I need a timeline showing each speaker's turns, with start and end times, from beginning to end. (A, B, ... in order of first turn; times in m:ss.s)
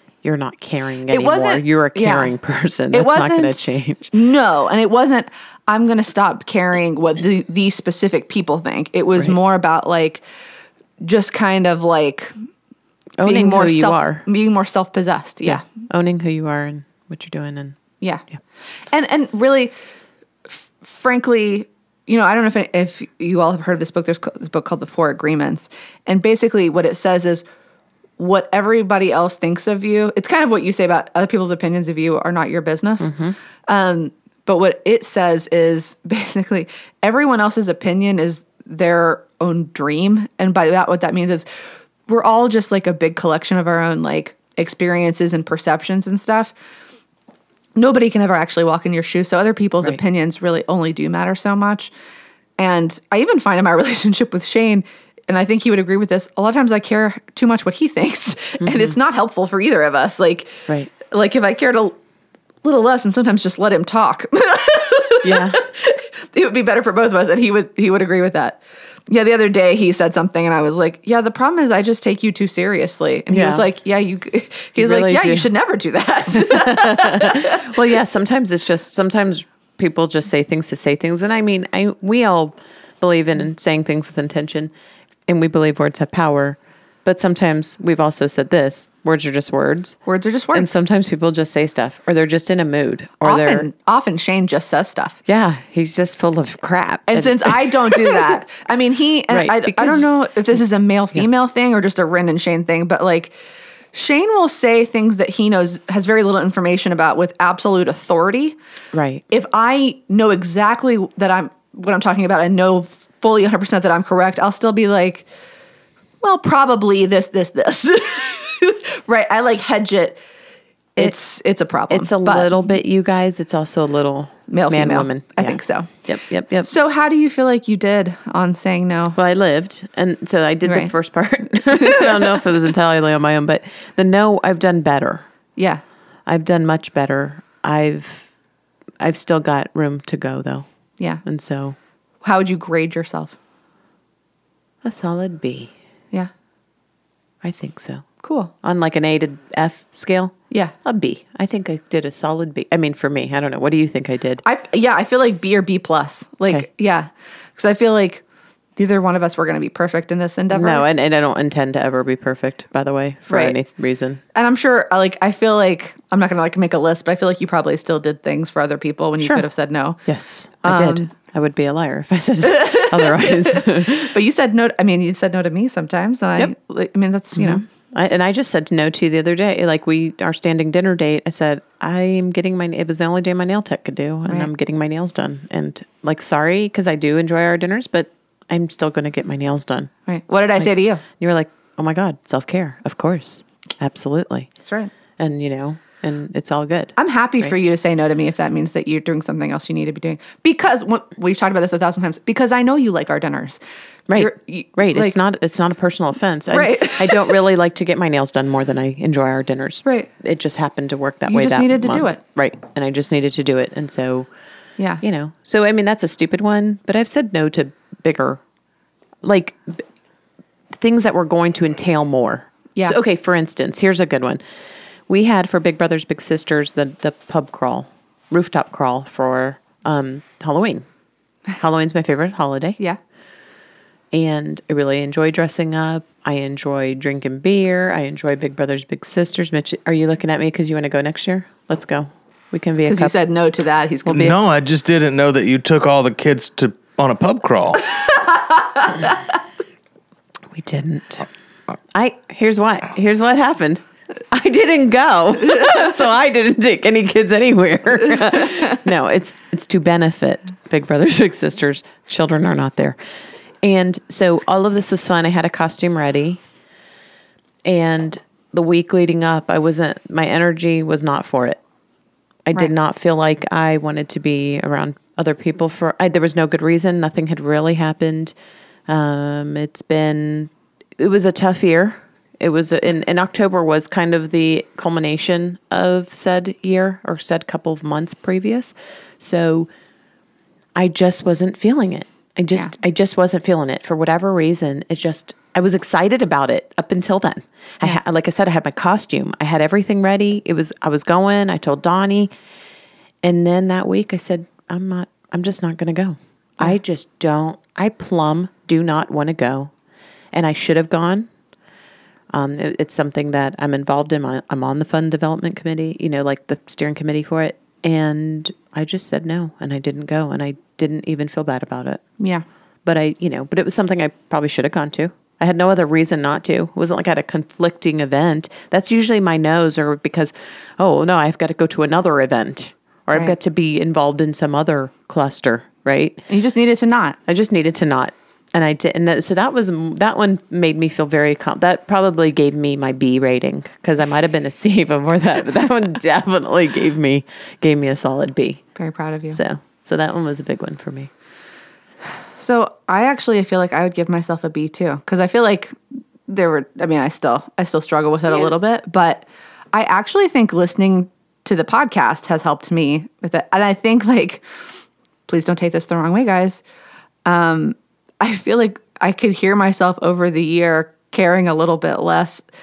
0:00.2-0:04.1 A
0:01.1-0:02.3 B
0:02.9-0:10.2 B
0:11.0-0:12.3 B
0:13.2-0:14.2 A
0:13.2-0:15.6 B
0:15.4-0:17.8 A
0:18.9-0:19.7 B
0:20.5-0:27.4 B
0:28.2-0:33.1 B
0:33.0-0:33.4 A
0:33.7-0:41.4 B
0:42.1-0:46.5 B
0:47.8-0:51.9 B
0:52.6-1:02.0 B
0:58.6-0:58.9 A
1:02.6-1:17.8 B
1:05.2-1:05.6 A
1:13.3-1:13.6 A
1:14.8-1:15.5 A
1:16.3-1:24.7 A
1:25.3-1:30.0 A
1:30.0-1:30.7 B
1:30.5-1:33.7 A
1:33.2-1:35.2 B
1:35.2-1:38.3 A
1:37.1-1:43.3 B
1:39.3-1:40.1 A
1:43.9-1:48.6 B
1:48.9-1:49.2 A
1:49.3-1:55.2 B
1:56.2-2:00.2 B
2:01.0-2:02.7 B
2:01.9-2:06.7 A
2:04.5-2:05.9 B
2:06.6-2:09.2 B
2:09.1-2:15.2 A
2:10.6-2:10.9 B
2:11.6-2:12.4 B
2:15.6-2:15.8 B
2:16.2-2:18.3 A
2:19.0-2:20.6 A
2:21.2-2:21.8 A
2:22.2-2:23.4 B
2:24.8-2:25.7 A
2:27.4-2:28.0 A
2:28.2-2:28.5 B
2:28.6-2:34.4 A
2:34.4-2:38.2 B
2:38.8-2:40.8 B
2:40.5-2:44.2 A
2:43.3-2:43.6 B
2:44.3-2:50.0 B
2:50.0-2:54.1 A
2:50.6-2:51.1 B
2:52.5-2:57.6 B
2:57.4-3:09.9 A
3:10.0-3:11.0 B
3:10.6-3:14.5 A
3:14.6-3:14.9 B
3:15.2-3:17.5 A
3:17.0-3:23.6 B
3:24.1-3:34.3 A
3:24.1-3:25.2 B
3:26.5-3:27.4 B
3:31.3-3:32.2 B
3:35.0-3:38.4 A
3:39.2-3:39.8 A
3:40.7-3:44.4 A
3:45.1-3:50.8 A
3:51.6-3:52.8 A
3:54.1-4:03.1 A
4:02.9-4:04.4 B
4:04.1-4:07.9 C
4:08.0-4:09.2 B
4:10.5-4:11.3 A
4:11.9-4:23.0 A
4:23.6-4:26.4 A
4:27.6-4:31.6 A
4:32.4-4:38.3 A
4:38.9-4:49.7 A
4:50.8-5:02.3 A
5:03.2-5:09.7 A
5:10.3-5:11.3 A
5:12.3-5:22.0 A
5:22.8-5:36.3 A
5:36.3-5:37.2 B
5:37.3-5:48.6 A
5:48.8-5:49.4 B
5:49.3-5:51.1 A
5:52.4-6:04.4 B
6:05.3-6:06.6 B
6:07.2-6:12.4 B